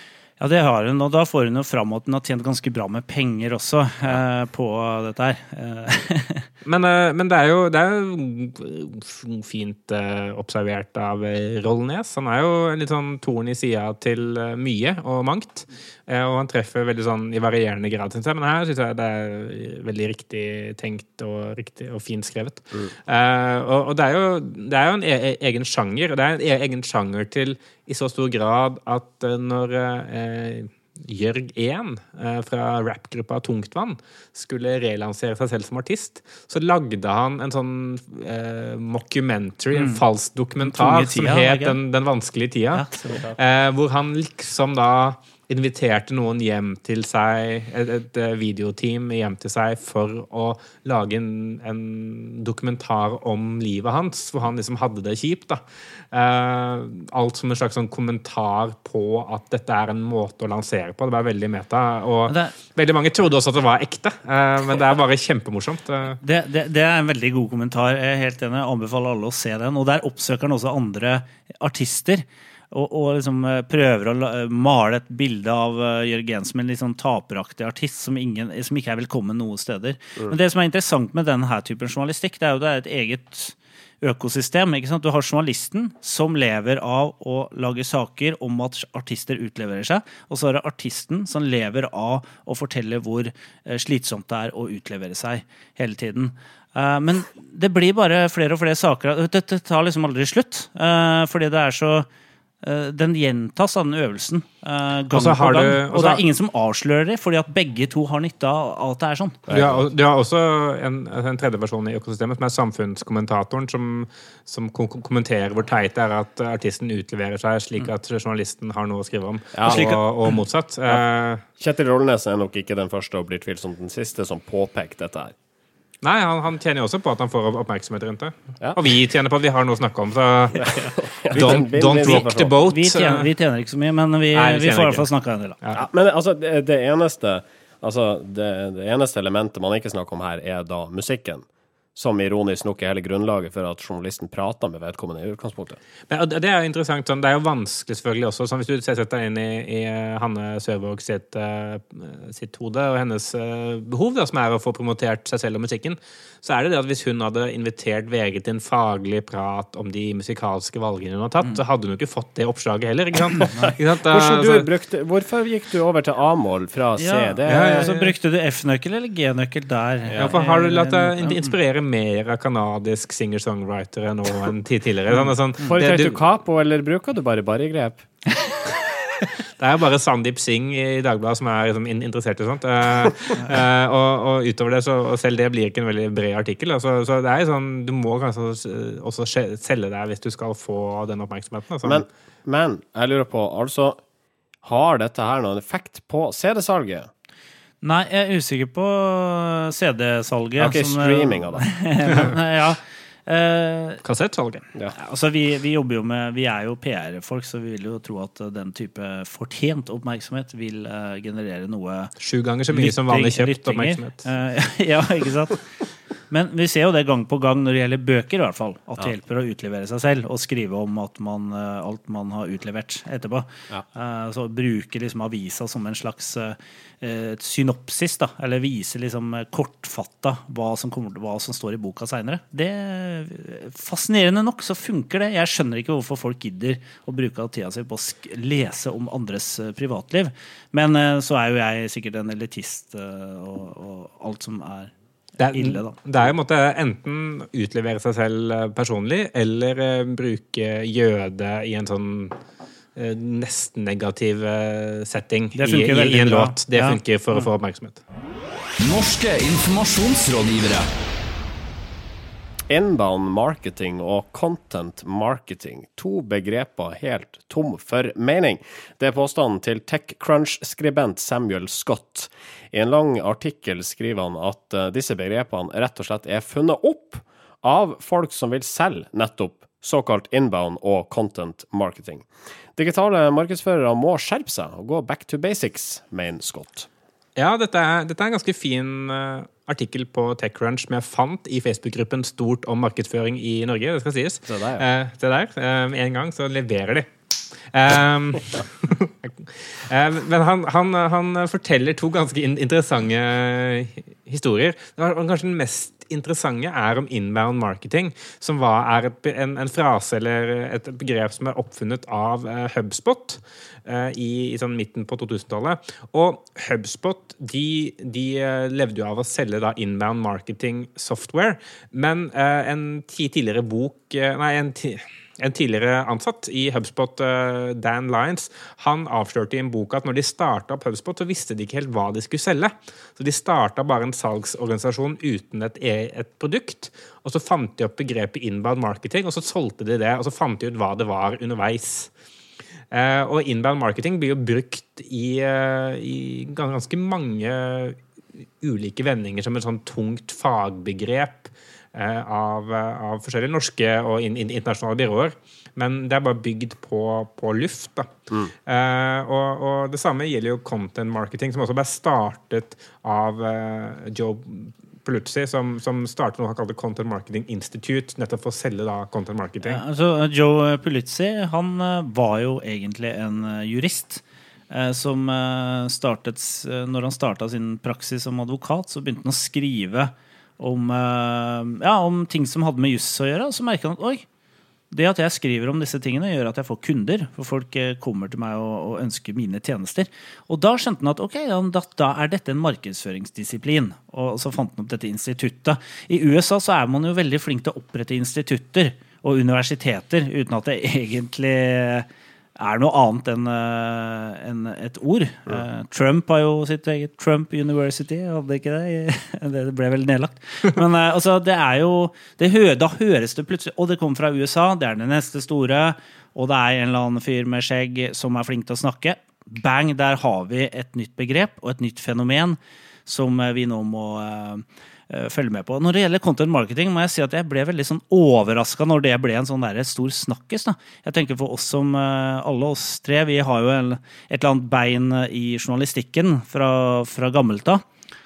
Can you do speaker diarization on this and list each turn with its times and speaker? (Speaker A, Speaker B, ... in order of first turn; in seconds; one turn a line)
Speaker A: 0.4-6.5
Speaker B: 6.6-66.2
Speaker A: 39.7-40.0
Speaker A: 40.6-41.8
Speaker A: 42.7-43.2
Speaker A: 62.3-62.5
Speaker A: 66.2-102.1
Speaker A: 102.6-109.4
Speaker B: 105.1-106.2
Speaker C: 109.5-109.8
Speaker B: 109.5-121.4
Speaker C: 119.5-119.8
Speaker A: 119.7-120.0
Speaker C: 121.6-125.3
Speaker B: 126.0-130.8
Speaker C: 130.5-132.5
Speaker B: 131.3-133.3
Speaker A: 132.6-135.6
Speaker B: 134.3-135.1
Speaker C: 135.8-145.8
Speaker B: 146.1-164.7
Speaker C: 164.1-167.9
Speaker A: 167.0-171.5
Speaker B: 167.5-168.1
Speaker C: 170.1-170.4
Speaker B: 170.2-176.2
Speaker C: 175.6-178.0
Speaker B: 179.6-192.0
Speaker C: 191.8-194.0
Speaker C: 194.6-197.1
Speaker A: 197.8-204.0
Speaker C: 200.6-201.6
Speaker B: 204.0-204.6
Speaker A: 205.0-212.1
Speaker B: 212.2-214.2
Speaker A: 212.7-215.6
Speaker A: 216.3-244.9
Speaker B: 245.4-252.4
Speaker A: 245.5-246.2
Speaker B: 252.9-258.0
Speaker A: 255.5-257.5
Speaker D: 258.8-260.9
Speaker C: 262.7-286.9
Speaker B: 287.4-297.1
Speaker C: 294.5-294.8
Speaker B: 297.7-342.1
Speaker B: 342.9-348.0
Speaker B: 348.6-358.1
Speaker B: 358.6-369.8
Speaker A: 369.6-384.2
Speaker A: 384.9-402.1
Speaker A: 402.6-437.8